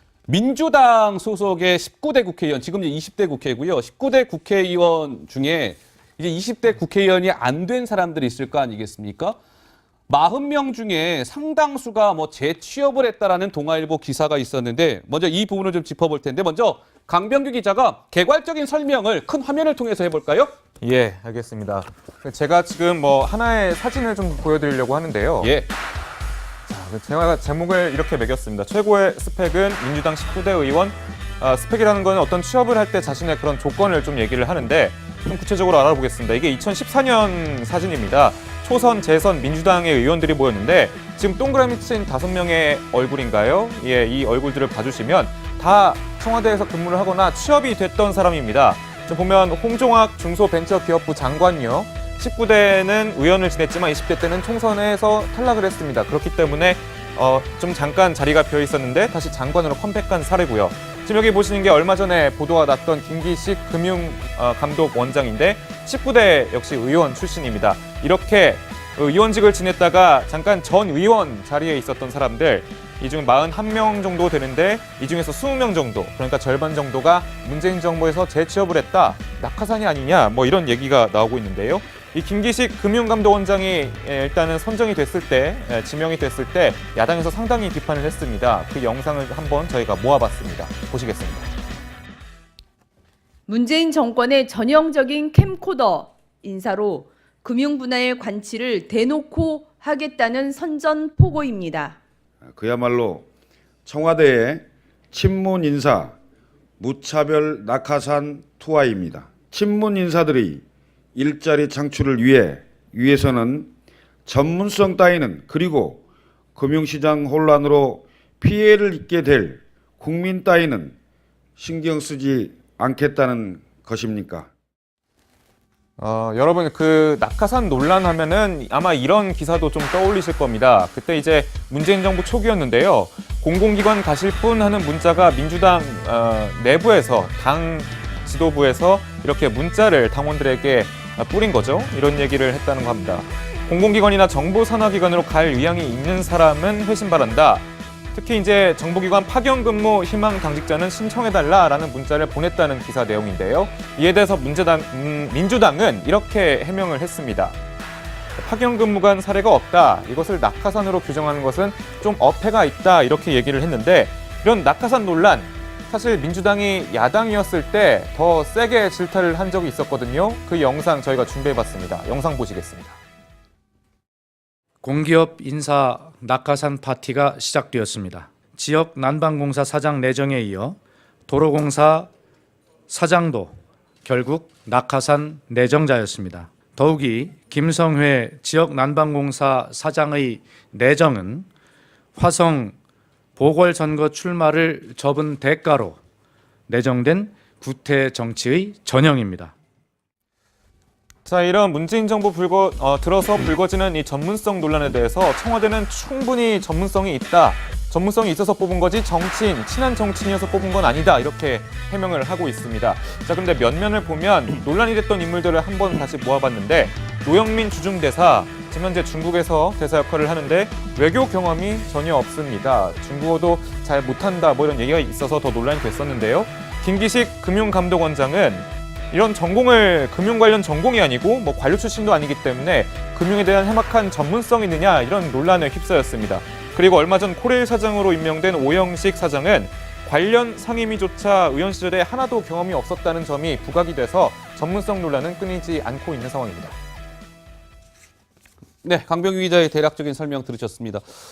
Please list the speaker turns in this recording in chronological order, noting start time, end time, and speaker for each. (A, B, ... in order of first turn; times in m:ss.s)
0:00.3-0:09.4 A
0:10.1-0:20.5 A
0:20.8-0:25.5 B
0:25.4-0:25.7 A
0:26.7-1:31.5 B
1:33.5-1:42.0 C
1:42.4-1:43.3 D
1:43.8-1:46.2 D
1:46.8-1:50.6 D
1:51.2-1:53.7 D
1:54.2-1:56.0 D
1:56.6-2:01.0 D
2:01.6-2:04.5 D
2:06.0-2:37.6 B
2:38.4-2:53.0 B
2:54.8-3:02.1 E
3:02.9-3:11.5 E
3:12.2-3:12.8 E
3:13.4-3:16.0 E
3:16.7-3:19.5 E
3:21.3-4:06.8 B
4:08.8-4:11.0 A